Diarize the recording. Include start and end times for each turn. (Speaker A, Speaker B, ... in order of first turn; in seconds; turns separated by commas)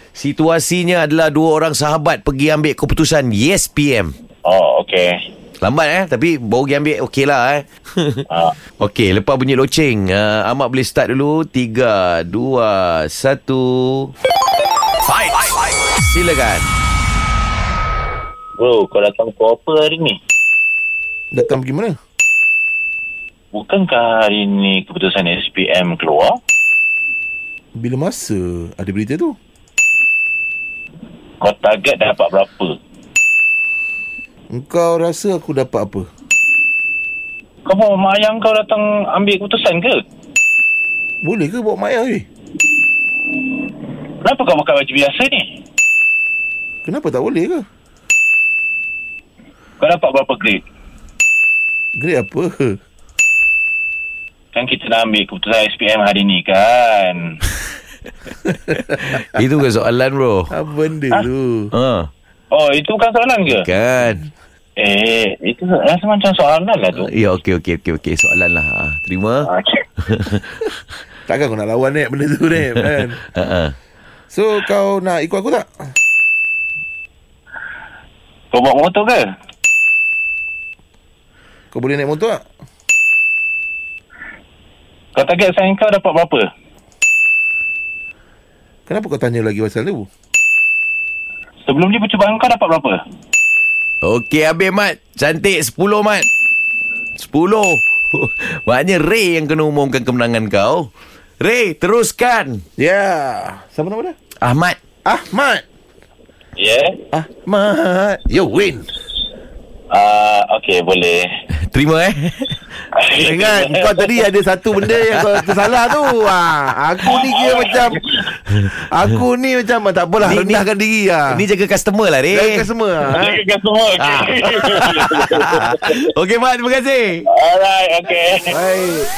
Speaker A: 0.1-4.1, Speaker B: 4.4-5.2, Speaker A: 5.6-8.2, Speaker B: 8.3-8.6, Speaker A: 8.8-14.1, Speaker A: 15.0-16.7, Speaker B: 18.6-20.2, Speaker C: 21.3-22.0, Speaker B: 23.5-26.4, Speaker C: 27.8-29.4, Speaker B: 31.4-32.8, Speaker C: 34.5-36.1, Speaker B: 37.6-40.0, Speaker C: 41.2-42.3, Speaker B: 44.2-45.5, Speaker C: 46.8-47.6, Speaker B: 49.8-50.6, Speaker C: 52.0-52.8, Speaker B: 54.5-57.4, Speaker A: 58.8-60.5, Speaker C: 60.5-61.7, Speaker A: 61.7-62.1, Speaker B: 62.5-63.6, Speaker A: 63.5-64.3, Speaker B: 64.8-67.1, Speaker A: 67.0-69.5, Speaker B: 69.5-69.8, Speaker A: 70.1-70.7, Speaker C: 71.3-73.2, Speaker A: 73.3-73.8, Speaker C: 74.3-75.9, Speaker B: 78.5-79.2, Speaker C: 81.7-82.4, Speaker B: 85.1-86.5, Speaker C: 88.9-90.1, Speaker B: 91.6-93.0, Speaker A: 94.0-96.3, Speaker A: 97.2-102.6, Speaker C: 102.8-104.2, Speaker A: 104.4-104.8, Speaker C: 105.0-105.6, Speaker B: 106.6-107.0, Speaker C: 107.1-108.9, Speaker B: 109.9-111.3, Speaker A: 111.6-112.6, Speaker B: 113.0-114.0, Speaker C: 113.2-118.0, Speaker A: 115.2-115.5, Speaker B: 117.1-118.2, Speaker C: 118.6-121.4, Speaker A: 120.2-120.6, Speaker A: 121.3-122.7, Speaker C: 122.3-123.4, Speaker B: 123.1-126.0, Speaker A: 124.0-127.2, Speaker B: 127.3-128.5, Speaker C: 128.5-129.1